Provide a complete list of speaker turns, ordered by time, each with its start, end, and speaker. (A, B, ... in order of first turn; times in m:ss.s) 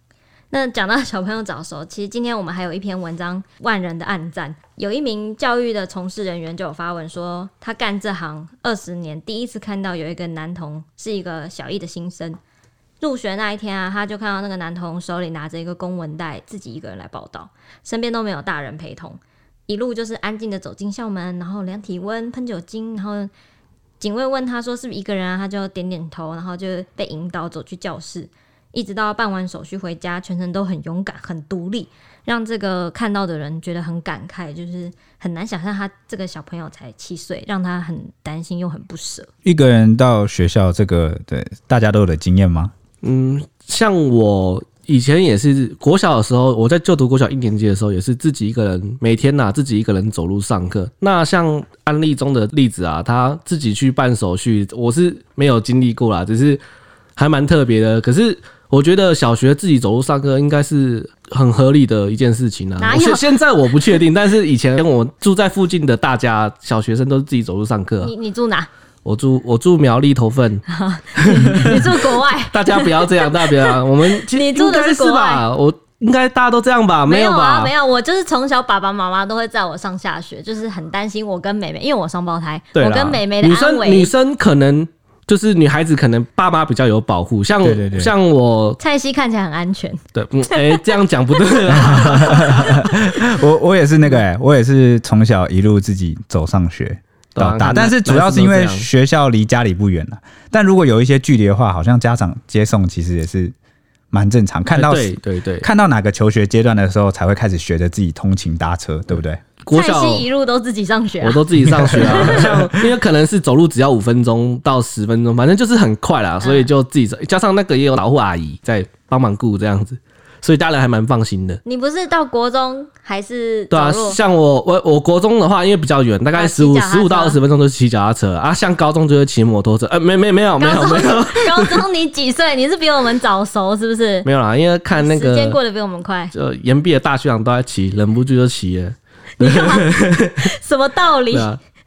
0:00.5-0:12.4 A
0:13.0-0:23.3 A
0:24.0-0:39.3 A
0:39.4-0:42.7 B
0:43.0-0:56.6 C
0:57.2-1:08.1 C
1:02.8-1:03.2 A
1:08.0-1:08.7 A
1:09.0-1:10.6 C
1:10.6-1:15.4 A
1:11.2-1:17.7 C
1:17.0-1:24.1 A
1:22.7-1:28.8 C
1:27.6-1:28.1 B
1:28.8-1:31.0 A
1:30.1-1:33.2 C
1:31.6-1:32.8 A
1:32.1-1:43.5 B
1:37.3-1:38.9 C
1:44.1-1:49.4 B
1:44.7-1:45.7 C
1:49.6-1:50.2 C
1:49.7-1:52.6 A
1:51.2-2:01.6 C
1:51.8-1:52.7 B
1:56.4-1:56.7 A
2:01.6-2:04.2 A
2:03.7-2:11.8 C
2:06.3-2:07.4 A
2:10.6-2:14.3 A
2:14.2-2:15.6 C
2:14.9-2:16.3 A
2:16.3-2:20.5 C
2:19.4-2:21.5 A
2:21.3-2:21.6 C